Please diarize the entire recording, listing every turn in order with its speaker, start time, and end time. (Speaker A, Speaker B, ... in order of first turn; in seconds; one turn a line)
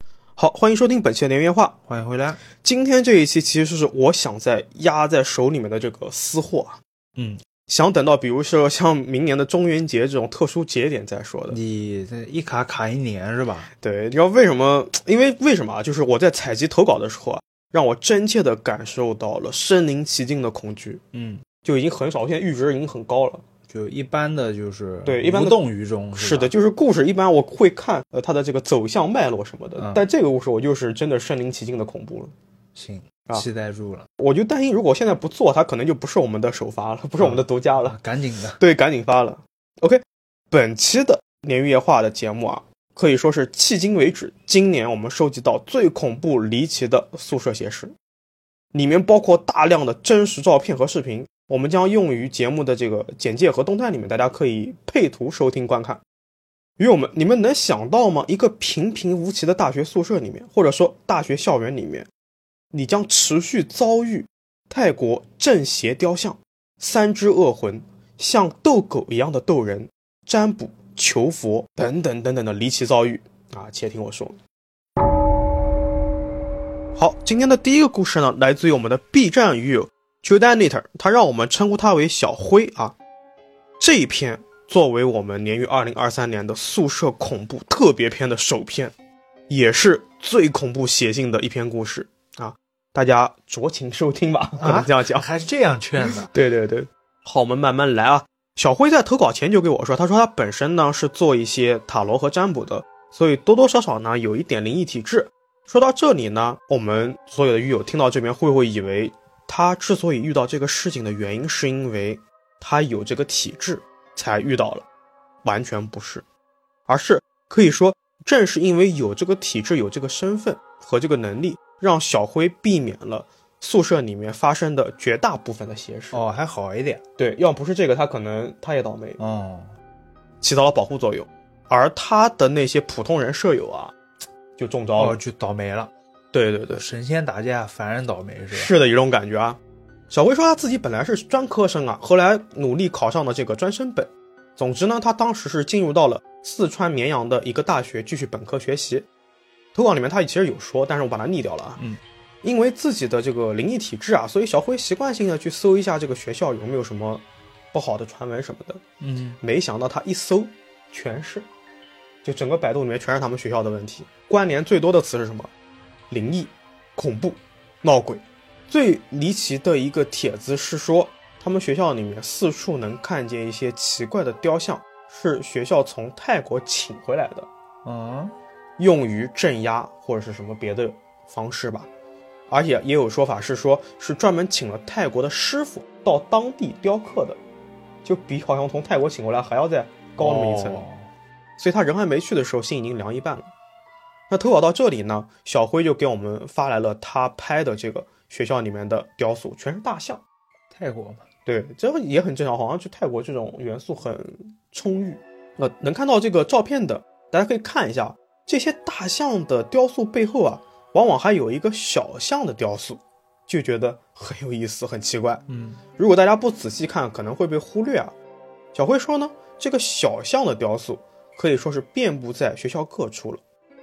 Speaker A: 0.4-1.8
Speaker B: 1.9-2.4
Speaker A: 2.6-6.8
Speaker B: 7.2-7.4
Speaker A: 7.7-11.6
Speaker B: 11.5-13.7
Speaker A: 13.8-21.0
Speaker B: 21.1-21.4
Speaker A: 21.6-23.4
Speaker B: 23.7-26.5
Speaker A: 25.1-25.6
Speaker A: 26.1-32.3
Speaker B: 29.8-30.0
Speaker B: 32.7-34.1
Speaker A: 34.2-38.0
Speaker B: 37.2-38.6
Speaker A: 38.6-47.9
Speaker A: 48.7-56.0
Speaker A: 56.8-62.1
Speaker A: 62.7-74.4
Speaker A: 77.0-83.0
Speaker A: 83.8-88.9
Speaker A: 89.5-95.2
Speaker B: 94.6-96.3
Speaker A: 96.3-114.9
Speaker A: 115.4-116.2
Speaker A: 116.9-126.2
Speaker B: 126.1-127.0
Speaker A: 127.2-129.2
Speaker B: 129.2-129.7
Speaker A: 130.4-133.9
Speaker A: 134.6-135.2
Speaker B: 135.0-135.9
Speaker A: 136.3-136.8
Speaker B: 136.7-138.7
Speaker A: 138.5-149.1
Speaker A: 149.7-151.8
Speaker A: 152.4-158.8
Speaker B: 159.0-159.4
Speaker A: 159.4-161.5
Speaker A: 162.2-165.5
Speaker A: 166.1-177.5
Speaker B: 177.8-178.3
Speaker A: 178.8-181.9
Speaker A: 182.5-187.4
Speaker A: 188.0-190.8
Speaker B: 190.2-191.1
Speaker A: 191.6-193.5
Speaker A: 194.3-200.2
Speaker B: 200.7-201.2
Speaker A: 201.4-215.4
Speaker B: 215.5-215.8
Speaker A: 216.0-218.1
Speaker A: 218.7-223.4